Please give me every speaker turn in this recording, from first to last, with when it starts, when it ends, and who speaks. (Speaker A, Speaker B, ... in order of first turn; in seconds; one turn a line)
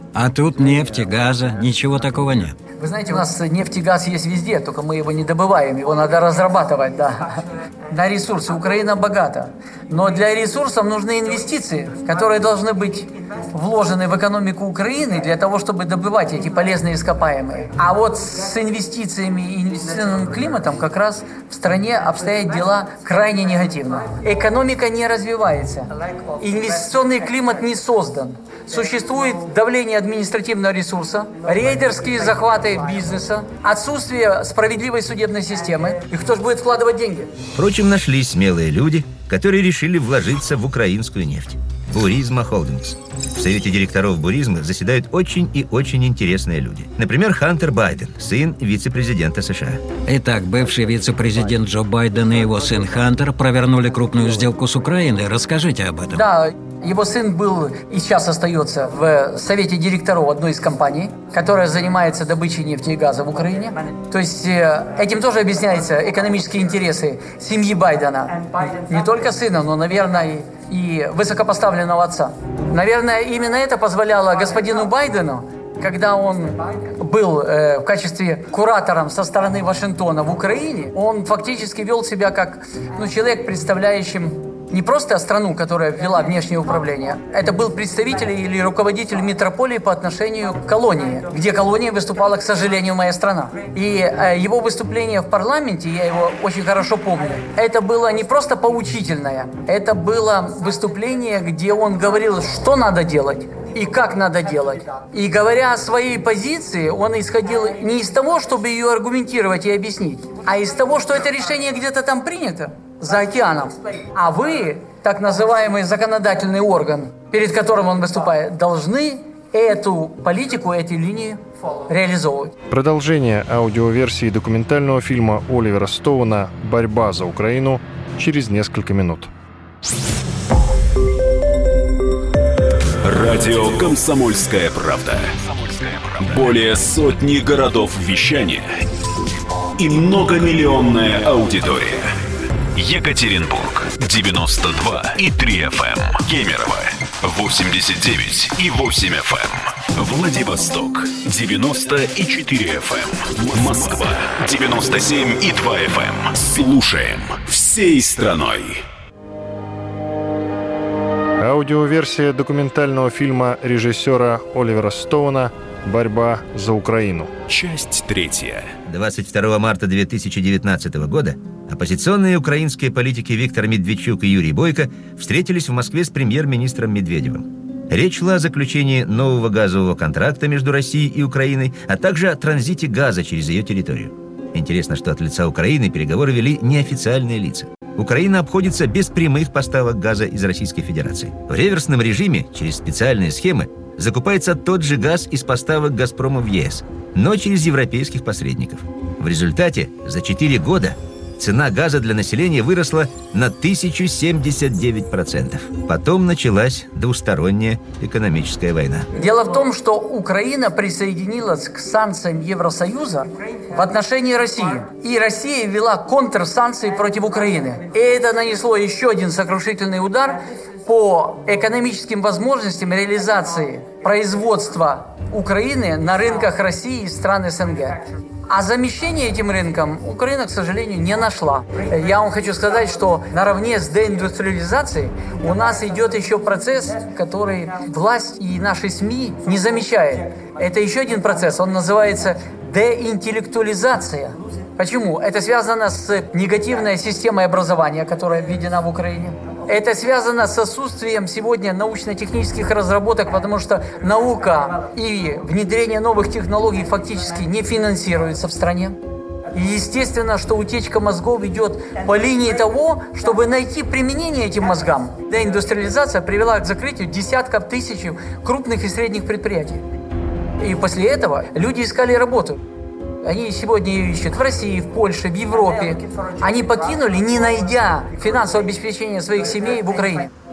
Speaker A: 0.1-2.6
Speaker B: 2.8-37.3
Speaker C: 37.6-49.8
Speaker A: 50.1-56.2
Speaker B: 56.1-122.5
Speaker D: 122.7-129.3
Speaker E: 133.0-138.7
Speaker E: 139.8-142.2
Speaker E: 142.8-158.8
Speaker D: 161.4-167.3
Speaker E: 167.5-168.7
Speaker C: 168.9-209.1
Speaker B: 209.2-259.0
Speaker B: 259.5-269.8
Speaker B: 270.6-272.6
Speaker B: 273.2-280.3